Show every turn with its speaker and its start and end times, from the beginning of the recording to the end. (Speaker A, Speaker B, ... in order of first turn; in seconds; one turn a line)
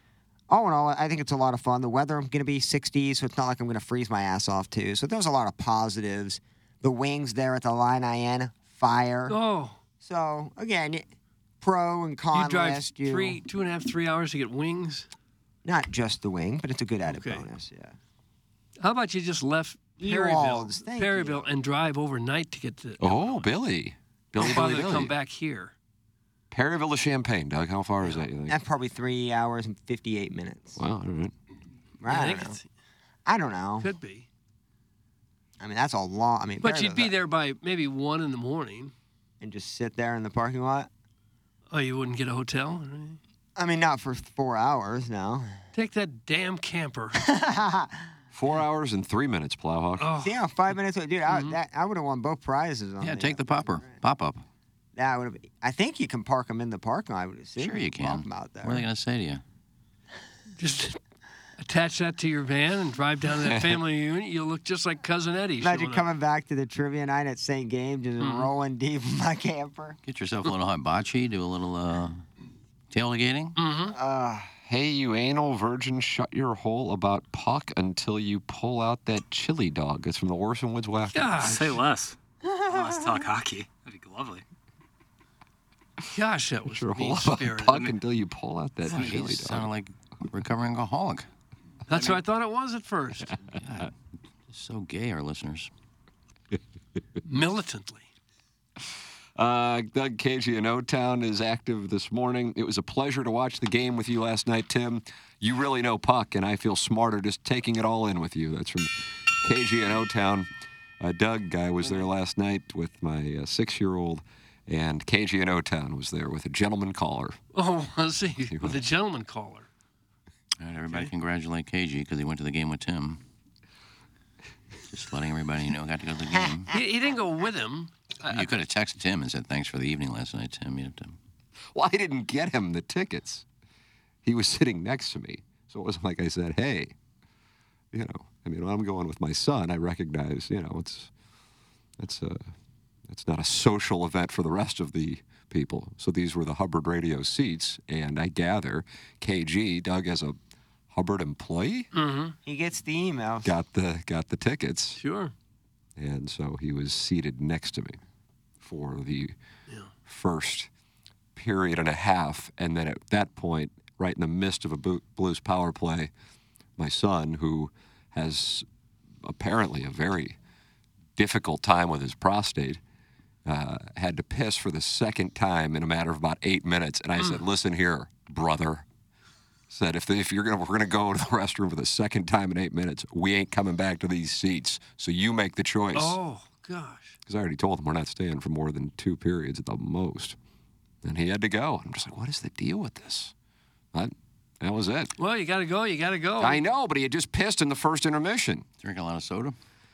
Speaker A: 0.5-9.4
Speaker B: 9.3-9.8
Speaker A: 10.0-11.1
Speaker A: 11.6-13.4
Speaker B: 12.3-15.1
Speaker A: 15.7-17.9
Speaker B: 17.1-17.5
Speaker B: 18.8-23.3
Speaker A: 20.0-21.5
Speaker C: 23.0-25.1
Speaker B: 24.4-25.7
Speaker C: 26.5-28.6
Speaker A: 28.5-30.8
Speaker C: 30.8-31.3
Speaker A: 32.0-32.6
Speaker B: 32.1-32.7
Speaker A: 33.3-33.9
Speaker B: 33.8-34.3
Speaker A: 35.6-37.1
Speaker B: 36.6-38.9
Speaker A: 39.4-40.9
Speaker B: 41.7-43.2
Speaker A: 43.6-45.5
Speaker B: 45.7-47.2
Speaker A: 47.2-48.1
Speaker C: 48.3-50.1
Speaker B: 50.0-50.4
Speaker A: 50.2-54.0
Speaker B: 51.3-51.6
Speaker D: 53.0-54.4
Speaker A: 55.0-58.9
Speaker D: 57.6-59.4
Speaker B: 60.6-61.0
Speaker B: 61.6-66.1
Speaker C: 63.4-63.8
Speaker A: 65.6-70.0
Speaker B: 68.2-68.5
Speaker D: 70.0-72.2
Speaker D: 72.9-73.6
Speaker B: 73.6-74.0
Speaker A: 73.9-74.5
Speaker C: 74.7-81.8
Speaker B: 81.1-81.6
Speaker E: 81.4-82.2
Speaker A: 82.4-83.2
Speaker E: 82.7-84.4
Speaker B: 86.1-87.9
Speaker C: 86.7-89.7
Speaker D: 88.9-91.3
Speaker E: 88.9-89.2
Speaker B: 91.9-93.4
Speaker E: 91.9-92.2
Speaker D: 93.6-93.9
Speaker D: 94.5-95.7
Speaker B: 97.2-98.1
Speaker C: 99.4-110.5
Speaker C: 111.0-117.4
Speaker B: 117.5-119.7
Speaker C: 118.5-118.8
Speaker D: 120.6-123.2
Speaker D: 124.9-126.7
Speaker B: 126.7-128.5
Speaker D: 128.3-131.2
Speaker C: 131.7-133.4
Speaker C: 134.2-136.9
Speaker C: 137.9-141.1
Speaker C: 142.0-142.5
Speaker C: 143.1-150.4
Speaker C: 150.9-151.9
Speaker B: 151.9-152.4
Speaker A: 152.4-153.5
Speaker C: 153.4-155.0
Speaker B: 155.0-155.3
Speaker C: 156.0-158.0
Speaker C: 158.6-159.3
Speaker C: 160.1-160.7
Speaker C: 161.3-166.1
Speaker C: 166.8-168.7
Speaker C: 169.2-170.4
Speaker C: 171.2-172.8
Speaker C: 173.5-178.9
Speaker C: 179.7-186.2
Speaker B: 185.9-187.2
Speaker C: 187.3-190.4
Speaker C: 191.0-193.3
Speaker C: 193.9-195.1
Speaker B: 195.2-196.6
Speaker C: 196.4-198.7
Speaker D: 198.8-199.6